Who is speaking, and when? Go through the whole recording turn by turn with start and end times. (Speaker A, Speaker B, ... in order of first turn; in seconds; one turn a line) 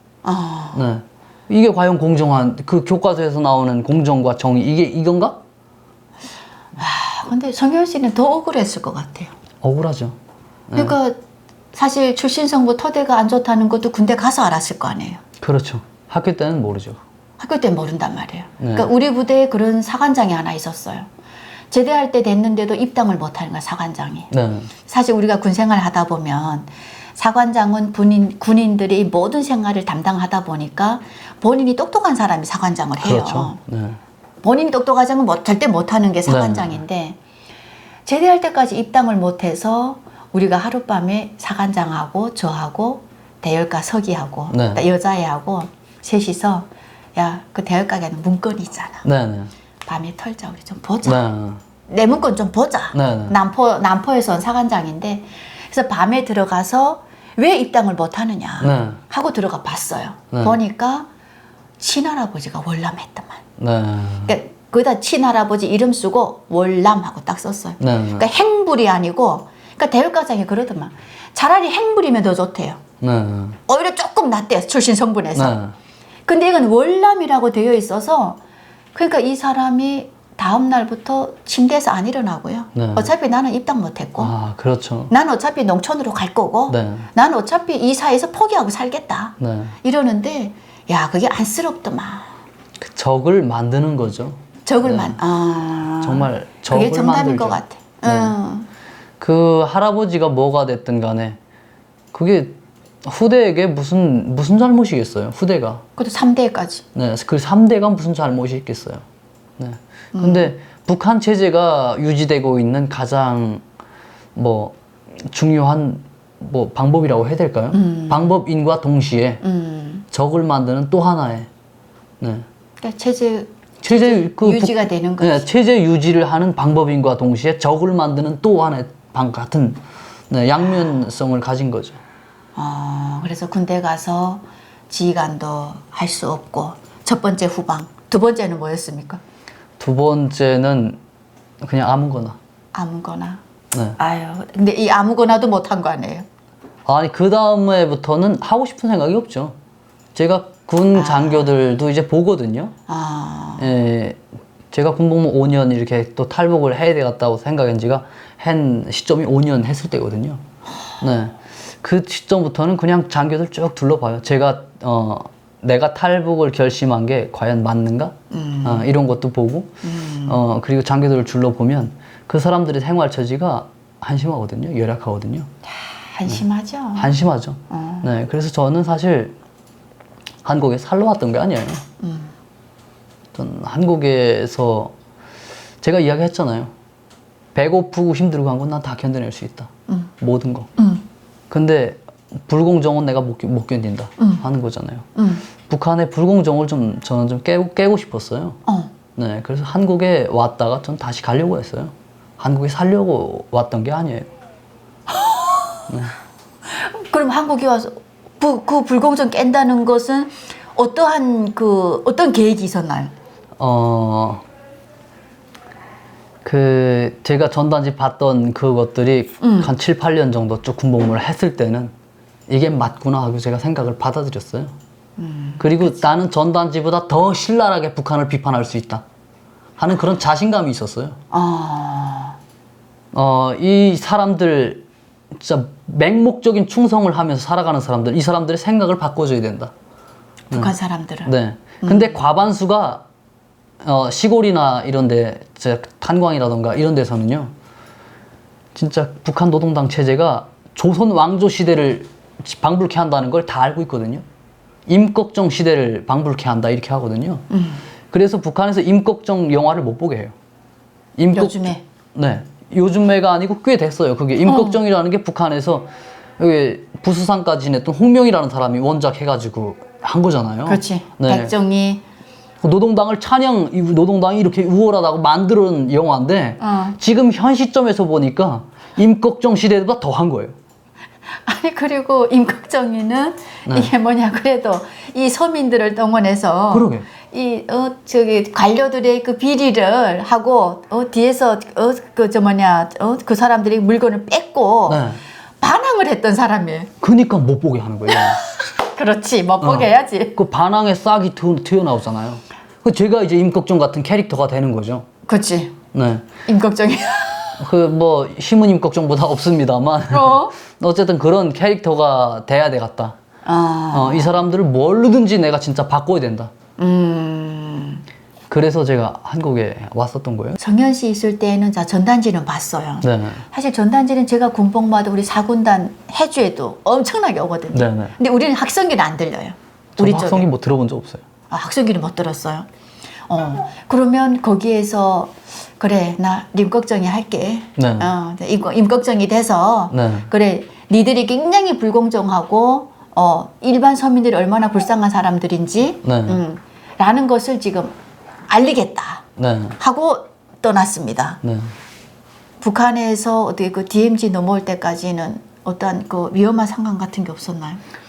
Speaker A: 0.2-0.9
Speaker B: 0.7-5.4
Speaker A: 6.8-9.3
Speaker B: 9.6-10.2
Speaker B: 10.7-11.0
Speaker A: 10.8-11.2
Speaker A: 11.7-15.2
Speaker B: 15.4-17.0
Speaker A: 17.4-21.1
Speaker B: 18.6-18.9
Speaker A: 21.7-24.3
Speaker B: 24.3-24.7
Speaker A: 24.9-33.6
Speaker B: 33.0-34.0
Speaker A: 34.4-37.2
Speaker B: 36.3-36.8
Speaker A: 38.1-49.0
Speaker B: 44.5-44.8
Speaker B: 49.0-49.5
Speaker A: 49.9-51.2
Speaker B: 51.0-51.6
Speaker A: 51.9-61.1
Speaker B: 52.9-53.4
Speaker B: 58.6-59.0
Speaker B: 60.3-60.6
Speaker A: 61.8-63.4
Speaker B: 63.6-64.3
Speaker A: 64.3-72.8
Speaker B: 67.8-68.3
Speaker B: 73.0-73.6
Speaker A: 73.7-75.6
Speaker B: 75.3-75.8
Speaker A: 76.3-78.4
Speaker A: 79.0-84.3
Speaker B: 82.8-83.1
Speaker B: 84.2-85.1
Speaker A: 85.1-92.3
Speaker B: 86.7-87.1
Speaker B: 89.4-89.8
Speaker B: 92.8-95.2
Speaker A: 94.7-98.7
Speaker B: 96.0-98.3
Speaker B: 99.2-101.4
Speaker B: 102.1-105.8
Speaker A: 106.0-106.8
Speaker B: 107.0-109.0
Speaker B: 109.6-113.6
Speaker A: 110.2-110.5
Speaker B: 114.3-119.4
Speaker A: 117.7-118.3
Speaker A: 119.4-120.0
Speaker B: 120.1-121.5
Speaker B: 122.2-122.5
Speaker A: 122.8-125.5
Speaker B: 123.8-132.0
Speaker A: 132.6-139.2
Speaker B: 139.8-141.0
Speaker B: 141.6-142.4
Speaker A: 142.7-143.4
Speaker A: 144.0-146.2
Speaker B: 146.9-149.6
Speaker B: 150.2-152.7
Speaker A: 150.9-151.5
Speaker A: 152.9-153.7
Speaker B: 153.6-154.2
Speaker B: 154.7-160.4
Speaker B: 161.0-175.5
Speaker A: 168.3-168.9
Speaker A: 169.8-170.4
Speaker A: 175.7-177.1
Speaker B: 177.0-179.3
Speaker A: 177.7-178.1
Speaker B: 180.4-181.8
Speaker A: 182.0-182.3
Speaker B: 183.3-184.9
Speaker B: 185.8-186.7
Speaker B: 187.6-189.7
Speaker B: 190.2-190.7
Speaker A: 190.8-191.1
Speaker B: 191.5-195.1
Speaker A: 194.2-194.4
Speaker A: 195.2-195.5
Speaker B: 195.7-198.6
Speaker A: 198.7-198.9
Speaker B: 199.2-204.3
Speaker A: 205.1-205.9
Speaker A: 206.7-213.1
Speaker B: 213.6-214.4
Speaker B: 216.4-221.9
Speaker A: 219.4-219.7
Speaker B: 222.5-224.7
Speaker A: 225.2-225.9
Speaker B: 225.6-229.0
Speaker B: 229.8-231.2
Speaker A: 231.3-232.4
Speaker B: 233.1-239.7
Speaker A: 240.5-241.3
Speaker B: 241.2-243.0
Speaker A: 241.8-242.2
Speaker B: 243.8-247.5
Speaker B: 248.8-254.2
Speaker B: 254.9-257.4
Speaker A: 257.5-257.9
Speaker B: 258.1-260.3
Speaker B: 261.2-271.5
Speaker A: 261.3-261.8
Speaker A: 264.4-264.8
Speaker A: 270.7-272.0
Speaker B: 272.6-280.6
Speaker A: 276.6-277.0
Speaker A: 281.5-296.9
Speaker B: 283.7-283.9
Speaker B: 286.7-287.1
Speaker B: 294.9-295.2
Speaker B: 297.0-298.4
Speaker A: 298.1-300.4
Speaker B: 299.6-305.1
Speaker A: 305.3-305.8
Speaker B: 305.9-306.3
Speaker A: 306.5-307.7
Speaker B: 307.6-313.2
Speaker A: 310.1-310.5
Speaker A: 313.4-314.3
Speaker B: 313.9-316.5
Speaker A: 316.8-318.0
Speaker B: 318.5-320.6
Speaker A: 320.6-330.5
Speaker B: 323.0-323.4
Speaker B: 327.7-328.1
Speaker B: 330.0-331.2
Speaker A: 331.5-332.7
Speaker A: 333.3-347.9
Speaker B: 337.8-338.1
Speaker B: 339.9-340.3
Speaker B: 346.0-346.4
Speaker A: 348.5-349.2
Speaker B: 349.4-349.8
Speaker A: 349.8-351.4
Speaker B: 351.4-351.7
Speaker A: 352.6-357.8